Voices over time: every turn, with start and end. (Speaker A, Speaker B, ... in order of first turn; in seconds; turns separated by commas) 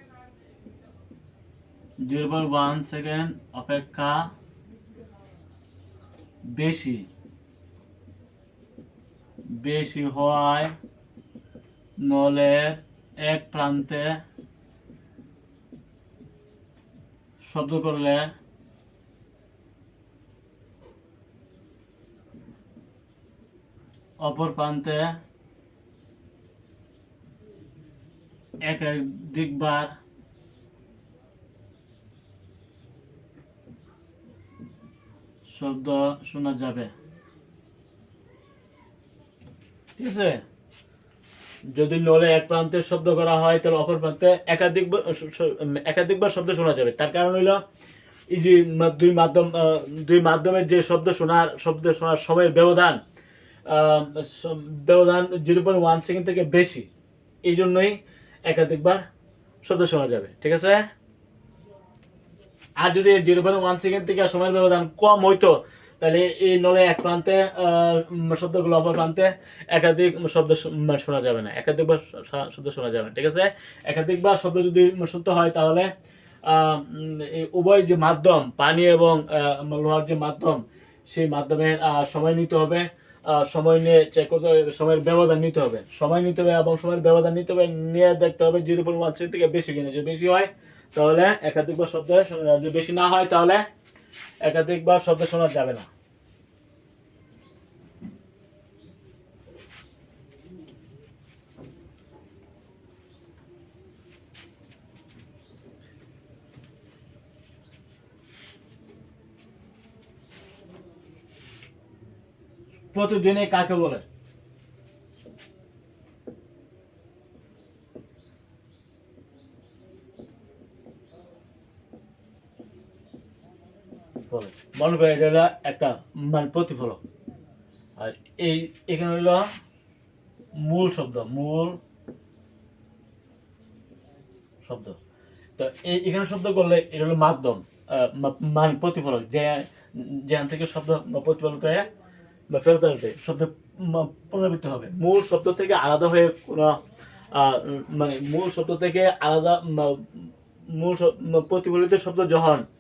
Speaker A: 2.0-4.3, Speaker A: 6.5-7.1, Speaker A: 9.5-10.7, Speaker A: 12.0-14.2, Speaker A: 17.4-18.3, Speaker A: 24.2-25.1, Speaker A: 28.6-29.9, Speaker A: 35.5-36.9, Speaker A: 40.0-40.4, Speaker A: 41.7-47.6, Speaker A: 48.3-53.0, Speaker A: 53.7-56.9, Speaker A: 57.4-59.0, Speaker A: 59.6-60.8, Speaker A: 62.8-75.9, Speaker A: 76.5-93.6, Speaker A: 94.4-95.9, Speaker A: 112.9-114.0, Speaker A: 124.3-127.0, Speaker A: 128.0-129.5, Speaker A: 130.6-131.8, Speaker A: 134.6-135.0, Speaker A: 135.6-141.9, Speaker A: 142.5-146.8, Speaker A: 147.3-152.6